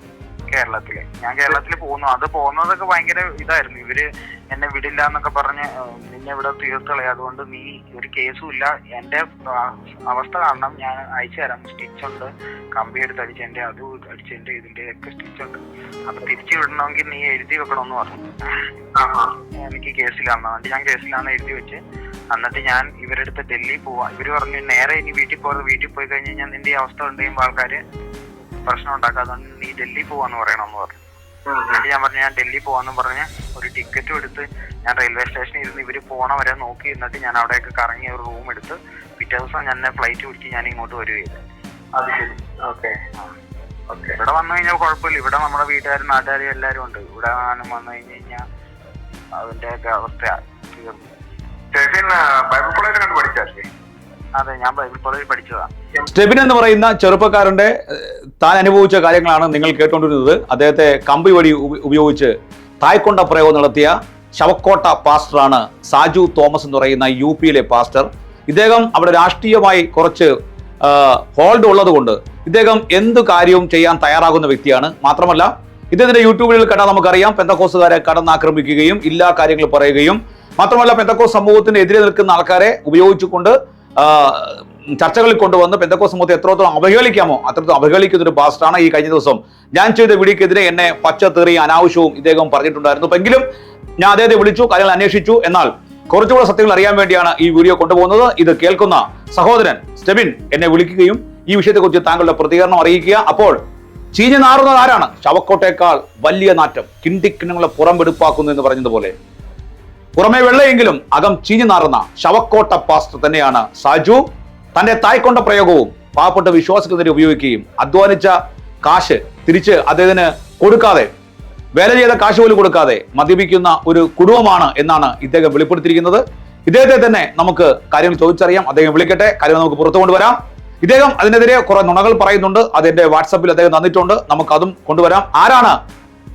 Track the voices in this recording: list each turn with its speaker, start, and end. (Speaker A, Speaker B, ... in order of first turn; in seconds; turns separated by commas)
Speaker A: 0.5-18.6, Speaker B: 18.9-19.3, Speaker A: 19.6-21.8, Speaker A: 22.3-27.8, Speaker A: 28.6-31.0, Speaker B: 31.5-31.8, Speaker A: 31.7-41.4, Speaker B: 42.0-42.9, Speaker B: 43.9-44.1, Speaker A: 44.2-48.4, Speaker A: 49.4-51.1, Speaker B: 51.7-53.7, Speaker A: 54.4-55.7, Speaker C: 56.1-70.3, Speaker C: 70.8-93.4, Speaker C: 94.0-103.6, Speaker C: 104.1-109.1, Speaker C: 110.2-114.2, Speaker C: 114.7-121.1, Speaker C: 121.8-135.8